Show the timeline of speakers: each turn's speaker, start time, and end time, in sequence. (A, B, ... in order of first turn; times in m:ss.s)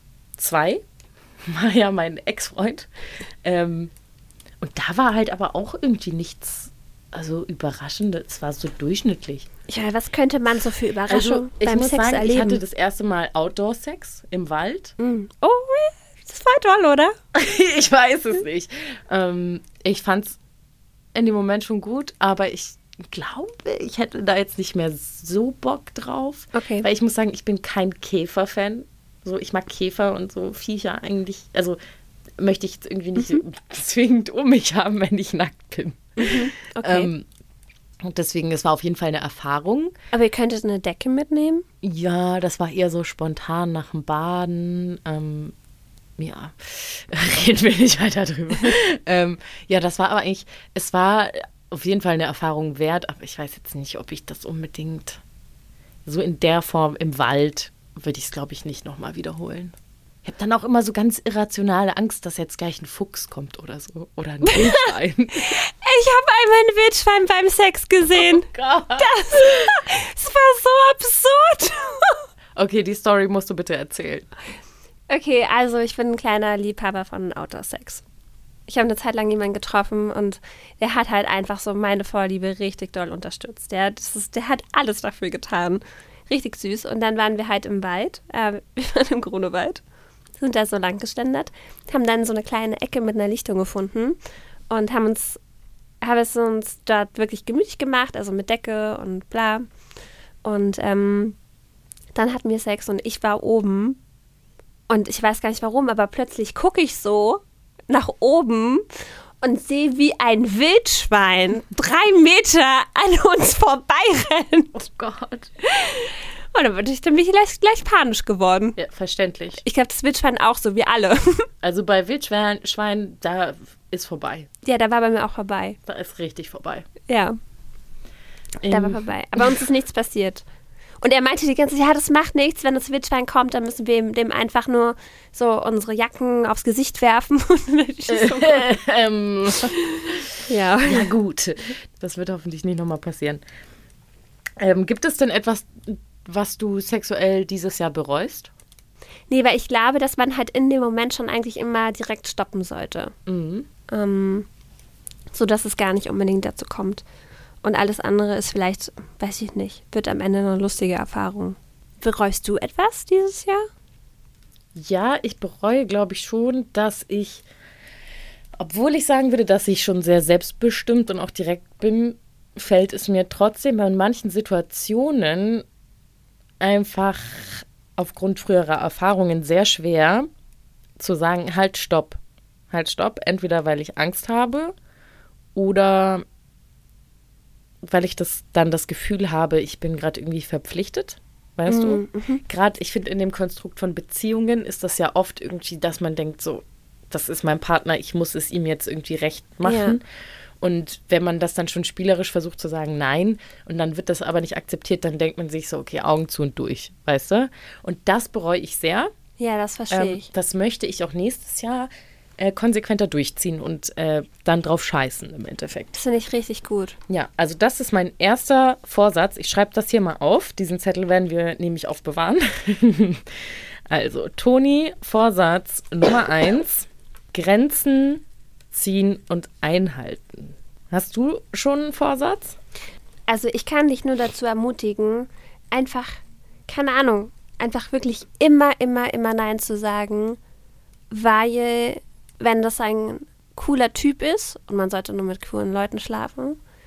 0:00.4-0:00.8 A
0:01.5-0:02.9 A
0:03.4-0:03.9 A
0:04.6-0:09.5 A
0:09.7-0:12.6 B
0:11.1-0:14.9 A
0:15.0-0:17.1 B
0:17.3-0:20.4 A
0:21.1-0:31.8 A
0:26.5-0:26.9 B
0:32.4-0:37.2 A
0:36.2-0:37.1 B
0:38.0-0:39.9 A
0:40.1-0:41.6 B
0:41.8-0:45.5 A
0:46.2-0:55.2 A
0:56.0-1:05.5 A
1:04.4-1:12.2 B
1:08.2-1:09.7 A
1:12.6-1:14.3 A
1:15.1-1:18.0 B
1:18.7-1:29.8 B
1:30.4-1:34.2 B
1:34.7-1:35.4 B
1:36.0-1:39.7 B
1:40.4-1:41.4 B
1:42.1-1:44.0 B
1:44.9-1:48.9 B
1:49.4-1:54.8 B
1:54.7-1:55.5 A
1:55.6-1:58.8 B
1:58.8-1:59.6 A
1:59.6-2:01.5 B
2:01.6-2:04.5 A
2:04.6-2:05.8 B
2:05.9-2:06.9 A
2:07.1-2:07.4 B
2:08.6-2:09.6 A
2:08.6-2:10.4 B
2:11.0-2:18.7 B
2:18.1-2:20.3 A
2:20.5-2:21.1 B
2:20.8-2:23.4 A
2:24.6-2:28.5 A
2:29.3-2:33.1 B
2:33.2-2:33.7 A
2:33.9-2:34.5 B
2:35.3-2:37.0 B
2:37.6-2:43.6 B
2:44.7-2:47.4 A
2:48.6-2:55.6 A
2:56.6-3:00.3 A
3:01.0-3:02.2 A
3:02.7-3:04.7 A
3:05.5-3:06.2 A
3:07.8-3:20.0 A
3:11.7-3:12.4 B
3:19.6-3:20.0 B
3:20.6-3:29.1 A
3:29.4-3:30.3 B
3:29.9-3:36.0 A
3:35.9-3:37.0 B
3:37.1-3:52.6 A
3:53.3-4:00.4 B
4:01.1-4:06.6 B